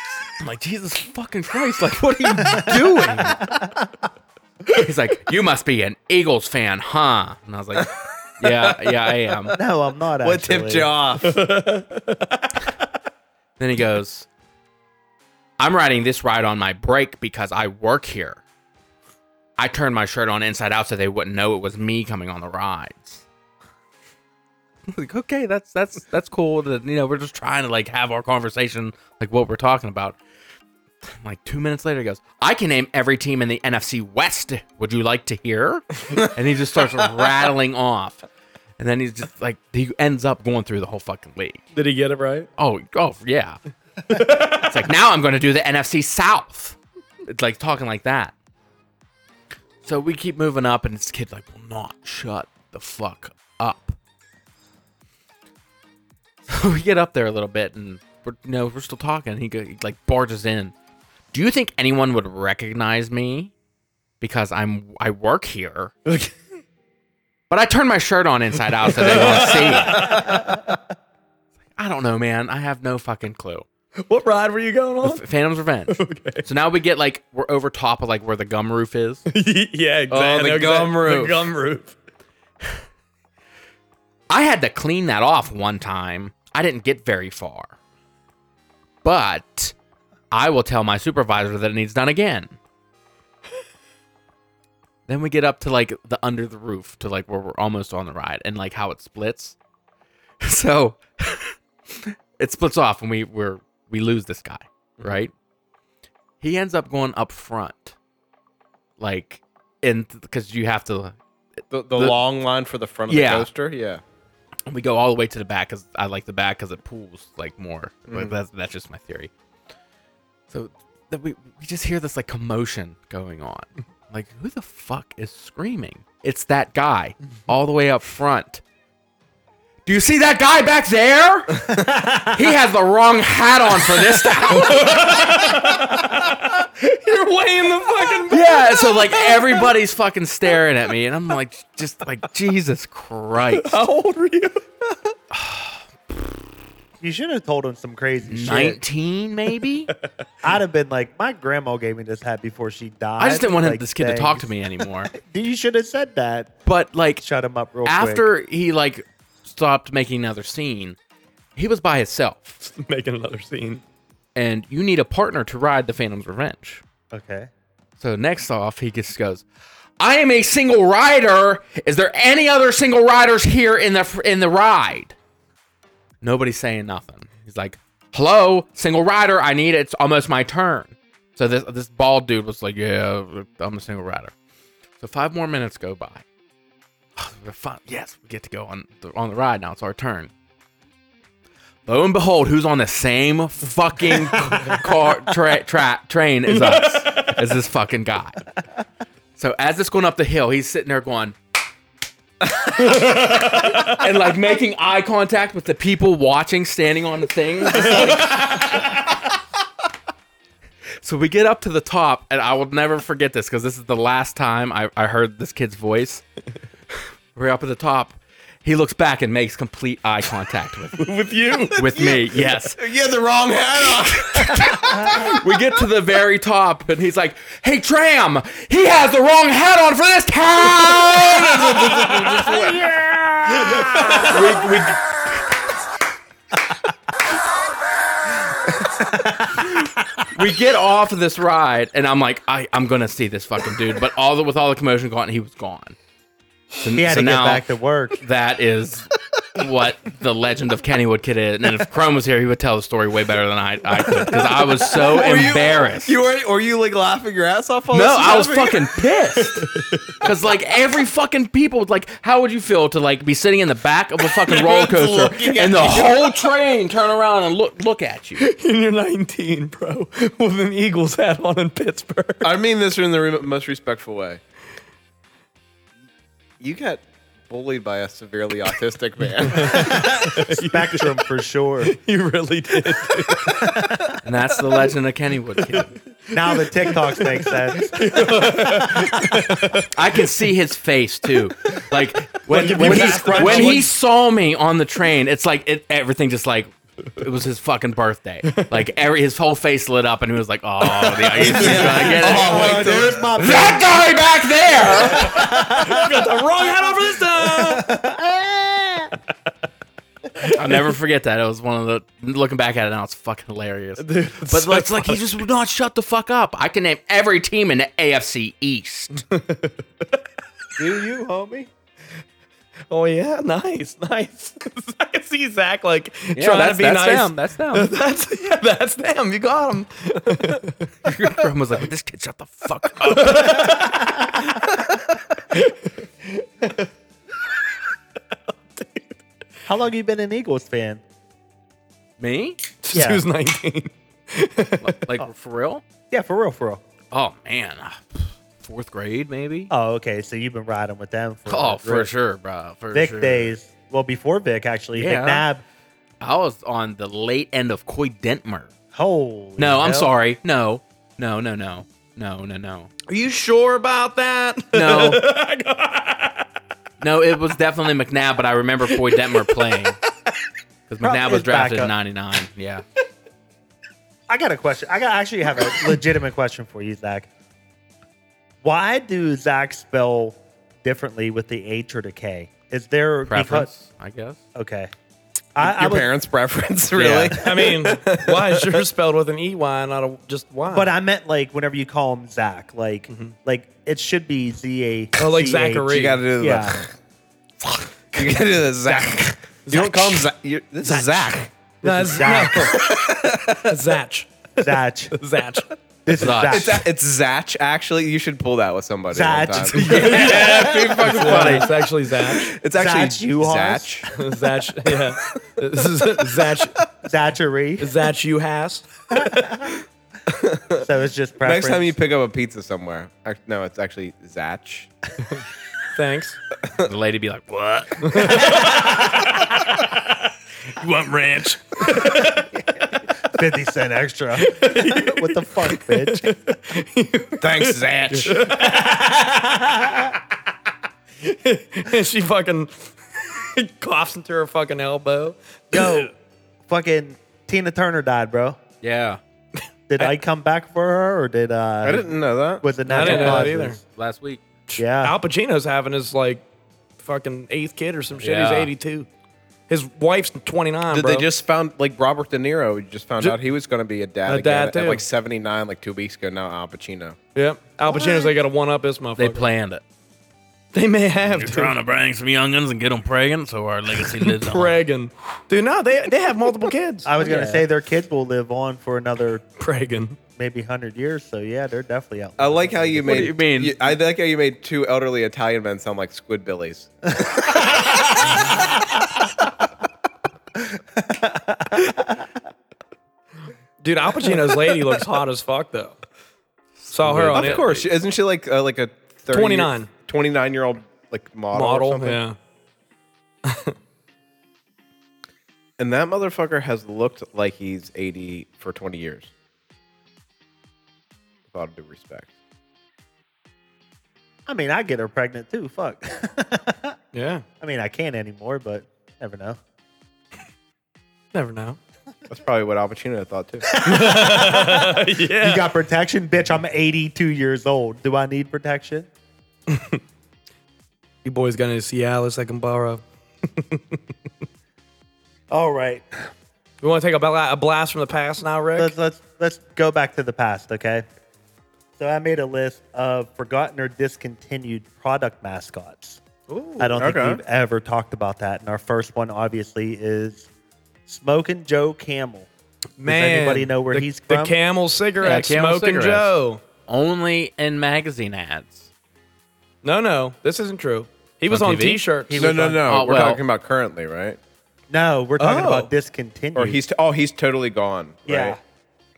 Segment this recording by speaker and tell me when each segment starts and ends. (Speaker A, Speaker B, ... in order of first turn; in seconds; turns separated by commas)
Speaker A: 0.4-3.5, Speaker B: 2.4-2.7, Speaker A: 4.7-7.9, Speaker A: 8.4-9.6, Speaker B: 9.5-10.9, Speaker C: 10.2-11.4, Speaker D: 11.2-12.5, Speaker A: 13.6-14.3, Speaker A: 15.6-18.4, Speaker A: 19.6-23.2, Speaker A: 24.9-30.2, Speaker A: 31.0-38.2, Speaker A: 38.8-41.6, Speaker D: 41.8-42.5, Speaker A: 42.6-43.6, Speaker D: 44.1-44.7, Speaker A: 44.1-48.3, Speaker A: 49.8-54.0, Speaker A: 56.5-60.7, Speaker A: 61.3-63.5, Speaker A: 64.2-65.9, Speaker D: 66.1-66.3, Speaker A: 67.5-70.3, Speaker D: 68.8-70.6, Speaker A: 71.8-73.7, Speaker D: 74.1-75.2, Speaker A: 75.0-79.2, Speaker D: 75.9-76.5, Speaker D: 79.3-82.0, Speaker C: 80.1-81.5, Speaker A: 84.3-87.8, Speaker A: 89.0-89.8, Speaker A: 90.3-92.6, Speaker A: 95.1-99.6, Speaker A: 100.4-105.3, Speaker C: 105.0-105.3, Speaker A: 106.4-108.0, Speaker A: 109.0-111.2, Speaker C: 111.7-114.0, Speaker A: 111.9-112.2, Speaker A: 113.1-113.5, Speaker A: 114.7-119.3, Speaker C: 118.1-118.4, Speaker A: 120.5-128.6, Speaker A: 129.9-135.3, Speaker B: 131.7-132.4, Speaker D: 133.9-139.7, Speaker A: 138.3-143.8, Speaker D: 143.5-144.7, Speaker A: 145.3-145.8, Speaker B: 147.0-148.8, Speaker A: 148.3-149.9, Speaker B: 150.4-154.5, Speaker A: 153.2-155.1, Speaker B: 155.1-156.5, Speaker A: 156.7-157.2, Speaker B: 157.2-158.3, Speaker A: 157.9-161.0, Speaker A: 161.6-162.6, Speaker D: 162.7-163.8, Speaker A: 164.3-166.8, Speaker B: 167.1-167.5, Speaker A: 168.0-169.4, Speaker A: 170.0-175.2, Speaker A: 176.2-184.3, Speaker A: 185.0-186.2, Speaker A: 187.2-190.3, Speaker A: 191.9-198.4, Speaker D: 194.3-194.8, Speaker D: 196.5-197.4, Speaker A: 199.4-201.3, Speaker D: 202.6-204.0, Speaker A: 203.1-209.1, Speaker A: 211.0-216.2, Speaker A: 217.3-221.1, Speaker D: 221.0-221.9, Speaker A: 221.8-222.8, Speaker C: 221.9-224.7, Speaker A: 223.8-235.5, Speaker B: 225.0-225.3, Speaker C: 231.6-232.5, Speaker B: 232.6-234.3, Speaker B: 238.8-239.9, Speaker A: 240.3-246.0, Speaker A: 246.8-256.2, Speaker B: 246.9-248.2, Speaker C: 254.9-258.8, Speaker A: 257.9-259.7, Speaker D: 259.5-260.2, Speaker A: 260.2-268.4, Speaker C: 264.4-266.4, Speaker D: 268.4-272.6, Speaker C: 272.4-274.4, Speaker C: 276.6-280.1, Speaker D: 279.5-281.1, Speaker B: 279.7-281.9, Speaker D: 281.9-284.1, Speaker B: 283.4-284.2, Speaker A: 284.2-285.9, Speaker D: 285.7-289.9, Speaker B: 286.3-288.6, Speaker A: 289.7-305.5, Speaker B: 292.5-293.9, Speaker D: 292.5-293.8, Speaker C: 301.4-303.6, Speaker B: 301.4-304.1, Speaker B: 304.7-309.1, Speaker D: 305.0-307.9, Speaker A: 310.5-319.2, Speaker D: 314.0-315.2, Speaker D: 319.2-319.8, Speaker B: 320.8-321.7, Speaker D: 322.9-330.9, Speaker A: 326.4-327.9, Speaker A: 331.0-333.9, Speaker D: 333.0-334.6, Speaker B: 333.8-334.4, Speaker D: 335.5-336.9, Speaker D: 338.7-339.2, Speaker B: 339.7-341.0, Speaker A: 342.2-342.6, Speaker D: 342.8-345.0, Speaker B: 342.9-343.2, Speaker A: 344.8-345.8, Speaker B: 346.1-346.8, Speaker A: 347.1-349.7, Speaker B: 349.7-352.1, Speaker A: 351.5-353.5, Speaker B: 352.9-355.6, Speaker A: 354.9-355.4, Speaker A: 356.2-358.7, Speaker B: 358.9-360.1, Speaker A: 359.6-362.9, Speaker D: 363.1-366.4, Speaker A: 364.7-365.2, Speaker A: 367.0-370.0, Speaker D: 369.1-369.5, Speaker A: 370.9-372.8, Speaker B: 371.0-371.9, Speaker B: 374.3-377.3, Speaker B: 378.6-383.7, Speaker A: 383.3-384.4, Speaker B: 384.6-384.9, Speaker B: 385.6-386.1, Speaker C: 385.6-388.8, Speaker B: 387.0-387.3, Speaker D: 387.3-390.9, Speaker B: 390.7-396.8, Speaker D: 393.1-393.4, Speaker D: 395.2-396.2, Speaker C: 395.9-396.9, Speaker C: 398.1-401.5, Speaker B: 398.9-399.3, Speaker D: 399.7-400.2, Speaker D: 400.8-405.7, Speaker B: 401.8-402.9, Speaker C: 402.7-403.6, Speaker B: 404.6-405.2, Speaker B: 406.1-406.9, Speaker A: 406.1-406.8, Speaker C: 406.4-414.1, Speaker B: 409.1-411.0, Speaker A: 409.7-411.7, Speaker D: 409.8-410.5, Speaker D: 411.0-412.5, Speaker B: 412.7-414.1, Speaker D: 414.1-416.8, Speaker C: 415.1-415.4, Speaker C: 416.0-416.6, Speaker B: 417.0-418.0, Speaker D: 417.8-419.6, Speaker B: 419.1-419.8, Speaker C: 420.3-420.8, Speaker B: 420.8-422.0, Speaker C: 421.4-424.9, Speaker D: 425.9-426.4, Speaker A: 426.8-428.8, Speaker D: 428.0-430.1, Speaker D: 430.8-432.5, Speaker B: 431.9-436.3, Speaker D: 434.4-439.1, Speaker C: 437.4-438.4, Speaker B: 438.7-440.2, Speaker D: 441.2-446.1, Speaker B: 445.7-446.1, Speaker B: 446.7-448.6, Speaker A: 448.8-449.2, Speaker B: 449.9-453.8, Speaker C: 451.8-452.6, Speaker D: 452.9-453.8, Speaker A: 453.0-454.4, Speaker D: 454.7-456.4, Speaker B: 454.8-455.2, Speaker D: 457.0-459.1, Speaker A: 458.2-458.7, Speaker D: 459.7-461.3, Speaker C: 460.9-467.2, Speaker D: 464.2-465.0, Speaker D: 467.4-469.5, Speaker A: 469.2-469.8, Speaker D: 470.7-471.7, Speaker A: 471.3-474.8, Speaker D: 474.0-477.6, Speaker B: 477.1-479.4, Speaker D: 479.6-480.2, Speaker B: 480.4-483.3, Speaker C: 482.4-488.1, Speaker A: 483.0-483.8, Speaker B: 487.7-488.6, Speaker B: 490.6-492.3, Speaker D: 493.8-496.0, Speaker A: 496.8-497.9, Speaker D: 496.9-497.7, Speaker C: 497.3-502.2, Speaker D: 499.3-499.9, Speaker D: 501.5-502.4, Speaker D: 503.5-503.8, Speaker C: 505.8-509.3, Speaker C: 511.5-512.3, Speaker B: 514.5-517.0, Speaker D: 517.1-517.5, Speaker B: 517.6-519.6, Speaker D: 521.3-521.8, Speaker C: 522.3-523.7, Speaker B: 523.7-529.1, Speaker D: 523.8-525.7, Speaker D: 529.7-530.0, Speaker D: 531.2-534.0, Speaker B: 535.5-536.3, Speaker D: 536.8-538.9, Speaker B: 538.8-541.0, Speaker B: 542.0-546.2, Speaker D: 546.5-547.0, Speaker B: 546.8-550.5, Speaker C: 547.0-547.4, Speaker B: 551.1-552.5, Speaker D: 553.0-556.6, Speaker B: 553.1-554.6, Speaker A: 555.2-556.3, Speaker A: 556.9-558.9, Speaker D: 559.8-562.6, Speaker A: 561.5-562.0, Speaker B: 562.3-562.8, Speaker C: 562.3-564.4, Speaker A: 562.9-563.4, Speaker B: 564.9-566.8, Speaker D: 565.4-565.9, Speaker C: 566.5-568.6, Speaker B: 568.3-568.6